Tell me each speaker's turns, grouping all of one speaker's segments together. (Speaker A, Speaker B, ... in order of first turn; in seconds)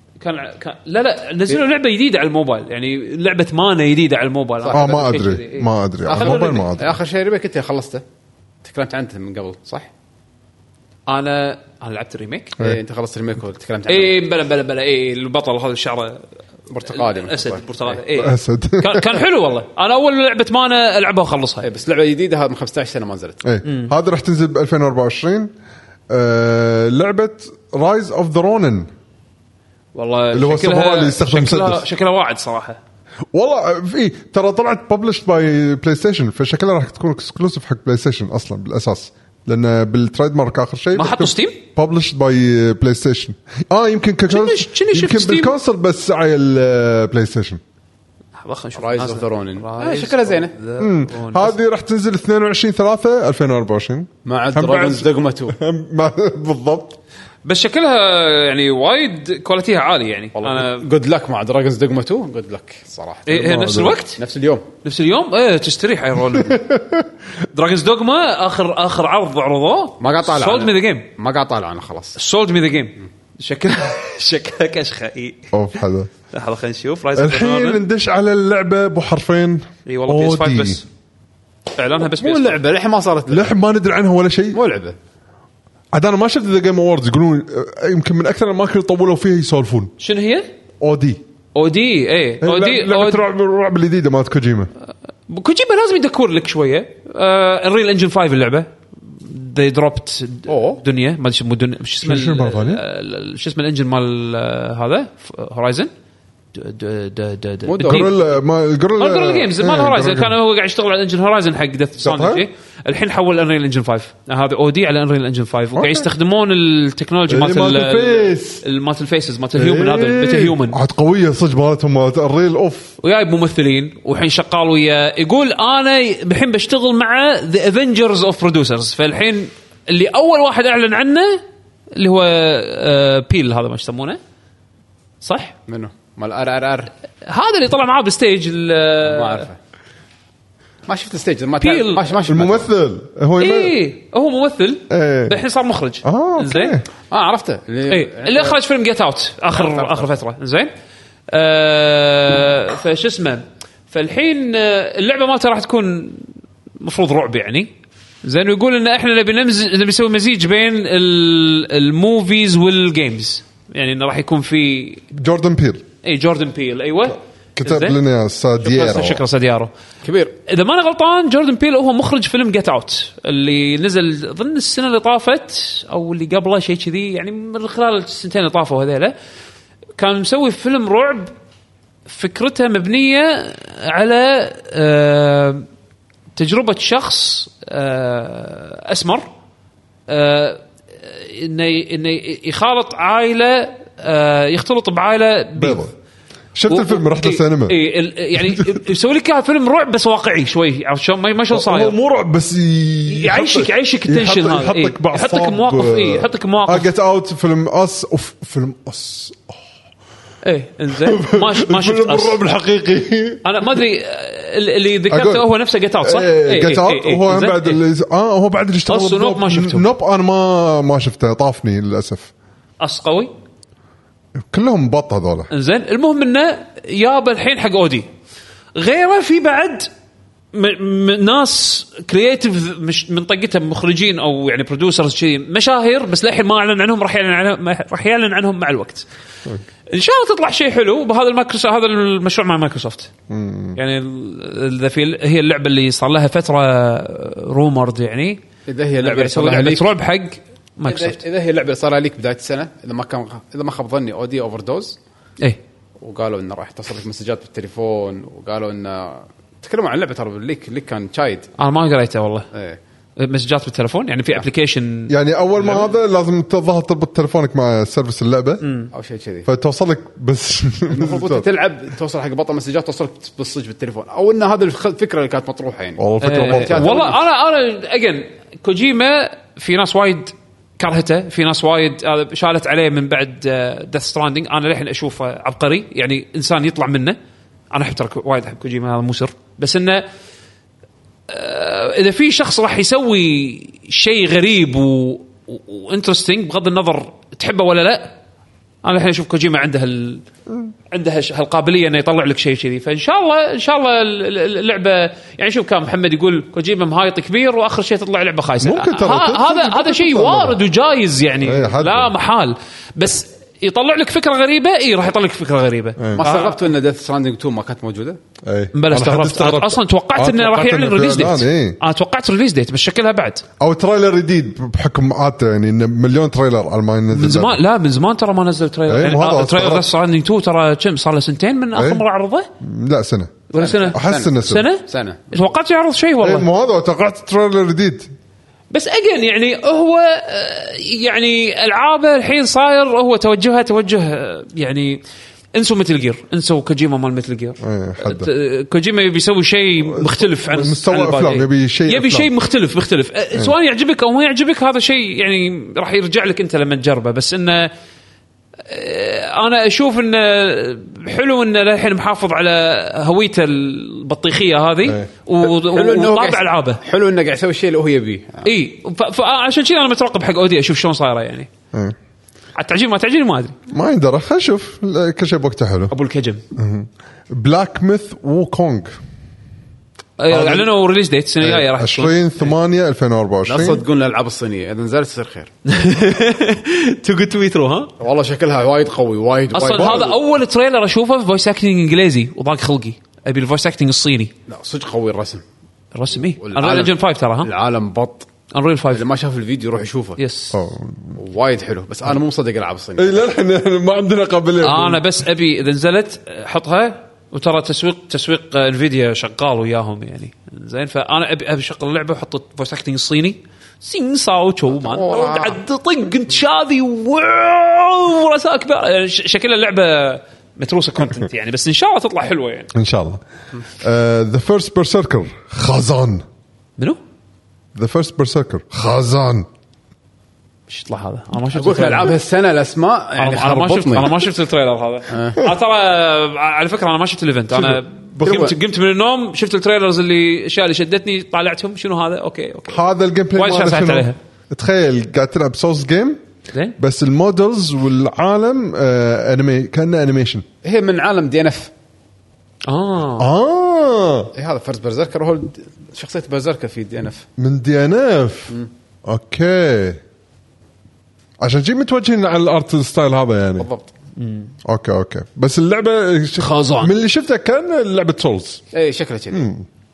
Speaker A: 0.2-6.6, 11.1-12.5, 13.9-16.2, 16.8-21.7, 23.6-23.9, 29.9-32.8, 41.0-41.6, 44.3-45.5, 48.4-51.5, 57.4-60.9, 63.3-64.2, 64.8-66.6, 67.5-71.1, 72.2-75.5, 76.3-77.8, 79.9-80.8, 81.8-82.6, 90.0-90.5, 91.5-93.2, 95.3-105.9, 106.5-108.2, 109.0-120.8, 123.0-131.4, 131.9-134.2, 135.2-135.5, 137.2-139.5, 141.6-142.1, 143.4-146.8, 147.9-150.7, 151.3-156.3, 156.8-157.7, 158.2-165.0, 166.0-168.0, 168.6-169.7, 170.5-179.2, 180.0-181.3, 182.1-185.7, 186.4-189.3, 190.1-195.8, 196.7-201.9, 203.1-206.9, 210.4-212.4, 213.4-217.8, 218.9-219.8, 222.8-223.3, 225.5-228.1, 228.8-229.9, 230.5-239.1, 239.9-243.1, 243.8-248.4, 249.0-251.2, 261.6-262.5, 263.2-265.9, 268.6-268.9, 276.2-287.2, 287.7-290.1, 291.3-298.2, 298.8-300.2, 300.9-316.6, 318.7-323.4, 327.1-332.5, 333.5-336.5, 338.7-345.0, 345.5-357.7, 358.7-366.8, 368.4-371.5, 372.6-373.6, 375.9-376.4, 380.2-382.5, 385.7-387.9, 389.5-394.3, 395.9-397.5, 398.5-399.0, 400.2-400.6, 404.6-422.7, 430.7-432.2, 433.2-442.8, 443.4-444.2, 452.7-453.3, 464.2-464.5, 466.4-466.9
Speaker B: 4.6-4.9, 6.1-8.0, 8.6-9.9, 12.6-14.2, 16.7-18.0, 21.6-23.4, 48.8-50.5, 54.2-55.6, 60.4-64.7, 70.0-72.2, 82.0-83.5, 84.5-85.0, 100.5-100.8, 107.7-108.1, 135.7-136.9, 139.0-139.6, 140.9-142.7, 147.1-148.6, 149.5-150.1, 170.0-170.3, 248.7-249.9, 250.8-255.0, 256.0-261.5, 262.5-262.8, 268.9-269.5, 270.9-277.2, 316.1-318.2, 333.6-335.3, 365.4-368.5, 383.5-385.5, 388.0-390.2, 394.5-395.4, 396.4-398.3, 398.9-400.2, 401.2-403.2, 414.8-415.6, 431.5-434.3, 435.1-435.4, 438.2-438.6, 450.6-451.7, 454.4-457.3, 463.6-463.9, 468.7-469.5
Speaker C: 4.7-7.0, 18.1-19.2, 23.4-25.5, 26.1-28.9, 30.3-31.9, 33.3-47.6, 50.8-57.0, 63.4-64.0, 66.3-67.1, 75.5-76.1, 77.2-80.8, 83.3-84.6, 85.9-89.9, 90.8-91.2, 92.4-94.7, 102.0-102.8, 107.9-110.4, 112.0-112.5, 115.8-116.1, 117.3-118.6, 119.6-123.0, 142.3-143.8, 144.9-145.4, 146.0-146.9, 165.1-165.8, 167.6-169.2, 195.6-195.9, 196.6-197.8, 198.3-198.8, 201.5-209.6, 210.9-213.4, 215.1-215.5, 216.0-222.3, 224.4-225.5, 243.3-243.8, 265.1-268.7, 269.5-271.5, 276.0-277.0, 308.6-310.6, 311.4-312.1, 316.0-316.2, 318.4-321.8, 323.6-327.6, 328.9-329.9, 331.8-332.0, 332.6-333.4, 333.9-334.7, 336.2-338.1, 347.6-348.3, 349.9-352.3, 373.7-375.9, 376.6-378.9, 380.3-380.6, 381.4-383.8, 389.7-390.1, 400.5-401.2, 403.0-405.0, 422.7-423.2, 423.8-426.2, 427.8-429.5, 437.5-438.5, 442.7-446.2, 446.8-450.4, 453.2-454.3, 457.4-458.5, 459.1-460.0, 461.4-463.7, 464.6-468.6, 469.3-469.7